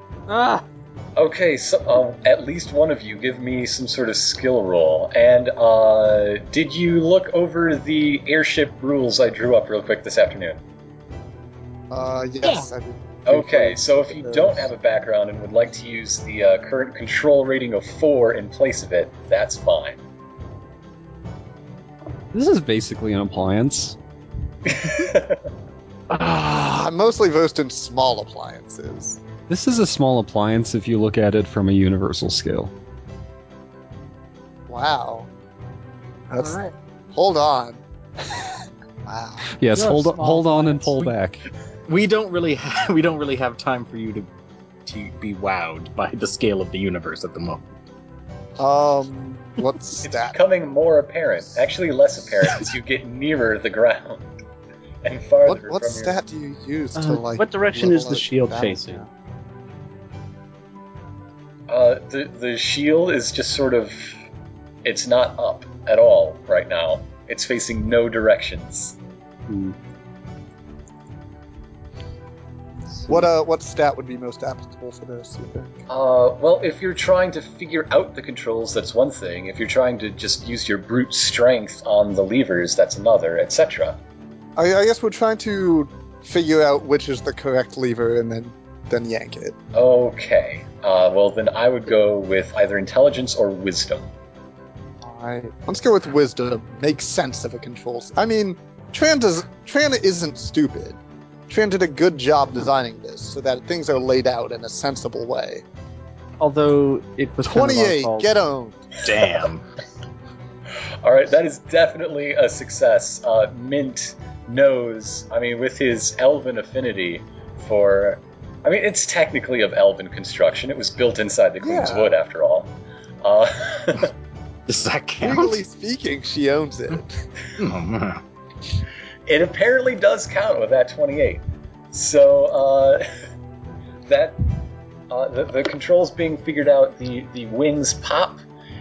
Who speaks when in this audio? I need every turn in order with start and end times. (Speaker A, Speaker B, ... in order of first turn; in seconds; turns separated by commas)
Speaker A: 0.3-0.6, Speaker B: 1.1-10.6, Speaker C: 11.9-14.7, Speaker A: 12.4-12.7, Speaker B: 13.3-20.0, Speaker D: 22.3-24.0, Speaker B: 24.6-25.4, Speaker C: 26.1-29.2, Speaker D: 29.5-32.7, Speaker C: 34.7-35.3, Speaker C: 36.3-37.8, Speaker A: 36.4-36.7, Speaker C: 39.0-39.5, Speaker D: 39.5-41.4, Speaker A: 39.7-41.1, Speaker E: 41.9-44.3, Speaker E: 44.9-47.6, Speaker C: 48.6-50.4, Speaker B: 50.0-54.3, Speaker B: 55.0-56.1, Speaker C: 55.4-59.1, Speaker F: 56.9-59.0, Speaker B: 61.7-64.1, Speaker B: 64.8-69.0, Speaker F: 69.5-69.8, Speaker F: 72.9-73.3, Speaker C: 73.1-75.7, Speaker B: 75.9-84.0, Speaker C: 84.5-89.5, Speaker B: 89.7-94.1, Speaker C: 95.0-105.6, Speaker F: 106.4-108.4, Speaker C: 107.4-108.8, Speaker E: 109.0-109.6, Speaker B: 111.0-122.7, Speaker C: 121.6-122.1, Speaker B: 123.2-124.1, Speaker E: 124.7-125.6, Speaker C: 125.2-127.2, Speaker E: 127.6-128.2, Speaker B: 129.3-133.0, Speaker B: 134.1-134.4, Speaker B: 135.1-138.4